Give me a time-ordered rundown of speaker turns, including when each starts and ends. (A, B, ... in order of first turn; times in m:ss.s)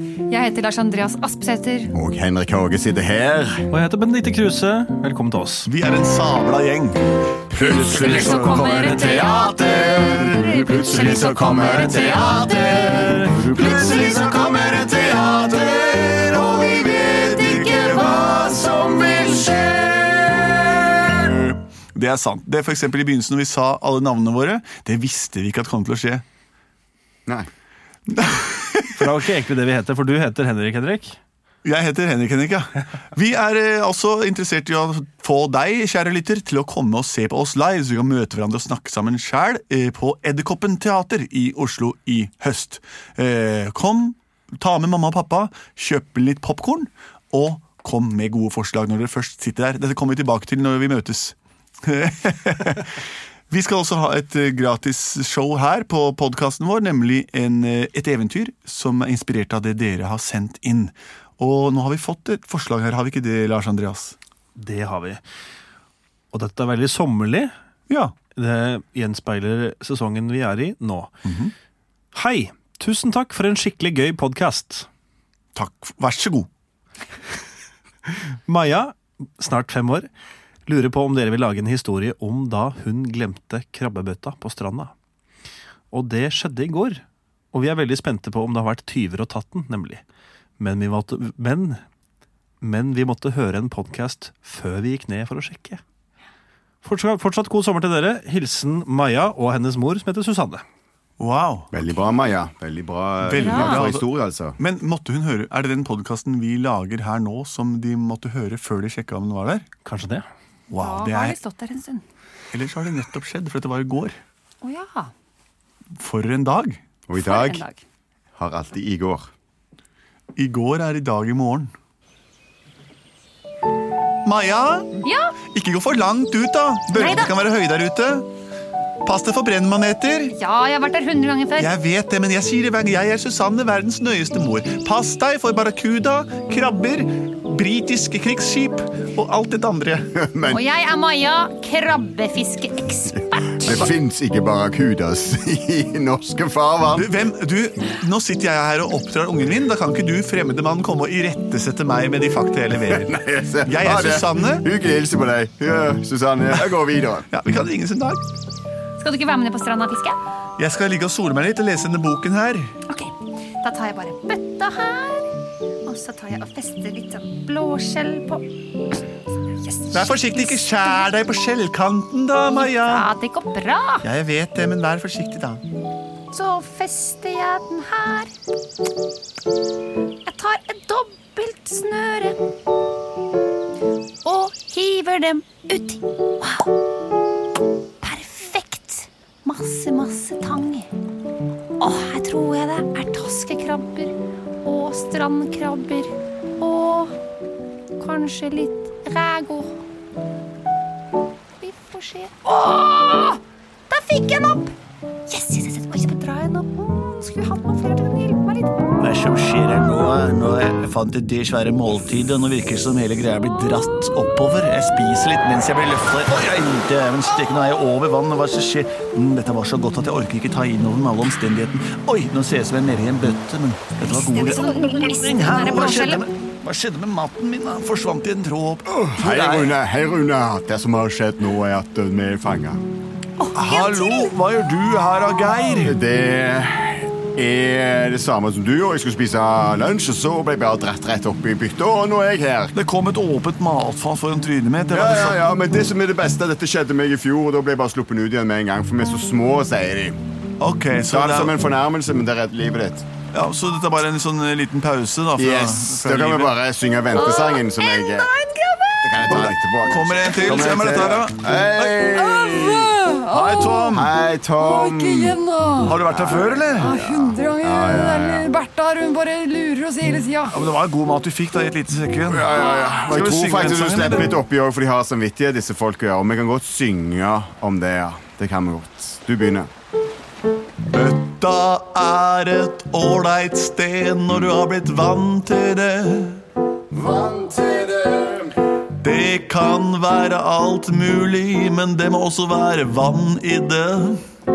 0:00.3-0:01.9 A
0:01.9-0:03.6 B
0:03.7-0:05.7 C
0:05.6-0:07.0 D
0:07.5-0:21.5 B
0:07.8-0:12.9 A
0:13.5-0:14.2 A
0:17.5-0:18.2 A
0:21.9-0:26.2 D
0:28.1-0:29.0 D
0:29.0-0:31.2 C
0:31.6-0:52.9 D
0:53.5-1:04.2 D
1:04.6-1:05.2 C
1:06.3-1:07.5 C
1:07.9-1:08.1 D
1:08.4-1:11.1 C
1:11.2-1:11.5 D
1:12.1-1:14.9 C
1:15.5-1:16.5 D
1:18.1-1:20.1 C
1:20.6-1:24.9 C
1:25.9-1:30.0 C
1:30.6-1:31.8 C
1:32.6-1:35.8 C
1:36.8-1:40.6 C
1:41.2-1:41.7 D
1:41.7-1:44.6 B
1:43.2-1:44.0 D
1:43.4-1:43.8 A
1:44.6-1:49.6 D
1:49.8-1:50.3 C
1:50.7-1:51.4 D
1:50.8-1:52.0 A
1:52.5-1:54.2 D
1:54.6-1:55.1 A
1:56.0-1:56.8 D
1:57.1-1:57.6 B
1:57.2-1:57.8 A
1:58.4-1:59.3 B
2:00.4-2:01.7 D
2:04.2-2:05.0 D
2:05.0-2:05.3 A
2:05.5-2:08.2 D
2:06.9-2:07.3 A
2:09.0-2:10.3 D
2:10.3-2:11.7 A
2:11.6-2:20.1 D
2:20.1-2:20.6 B
2:20.5-2:23.9 A
2:23.1-2:27.1 B
2:27.0-2:34.7 D
2:32.9-2:37.3 B
2:37.3-2:38.2 D
2:39.0-2:40.2 A
2:40.6-2:42.8 D
2:42.9-2:45.3 A
2:45.8-2:48.4 A
2:49.6-2:51.1 A
2:49.9-2:53.0 D
2:52.4-2:54.0 A
2:54.0-2:55.6 D
2:56.3-2:58.3 A
3:00.2-3:02.4 A
3:04.2-3:06.7 A
3:08.0-3:10.9 A
3:11.8-3:17.1 A
3:18.0-3:19.7 A
3:21.6-3:24.7 A
3:25.3-3:28.8 A
3:29.0-3:49.8 D
3:44.0-3:46.3 A
3:48.9-3:52.8 B
3:53.4-3:54.3 A
3:53.5-3:56.0 D
3:55.8-4:02.7 B
4:02.7-4:05.4 D
4:04.9-4:10.2 B
4:10.6-4:11.5 D
4:11.1-4:13.0 B
4:13.3-4:16.6 D
4:15.4-4:18.3 B
4:17.1-4:18.8 A
4:18.6-4:19.2 E
4:19.0-4:23.0 B
4:19.3-4:22.0 D
4:22.1-4:24.0 E
4:23.3-4:24.1 D
4:23.9-4:25.4 B
4:24.6-4:26.0 E
4:25.8-4:26.9 D
4:26.0-4:28.5 B
4:26.8-4:30.6 E
4:30.5-4:34.3 D
4:32.3-4:39.7 B
4:40.9-4:46.4 D
4:46.9-4:48.5 B
4:49.0-4:54.2 D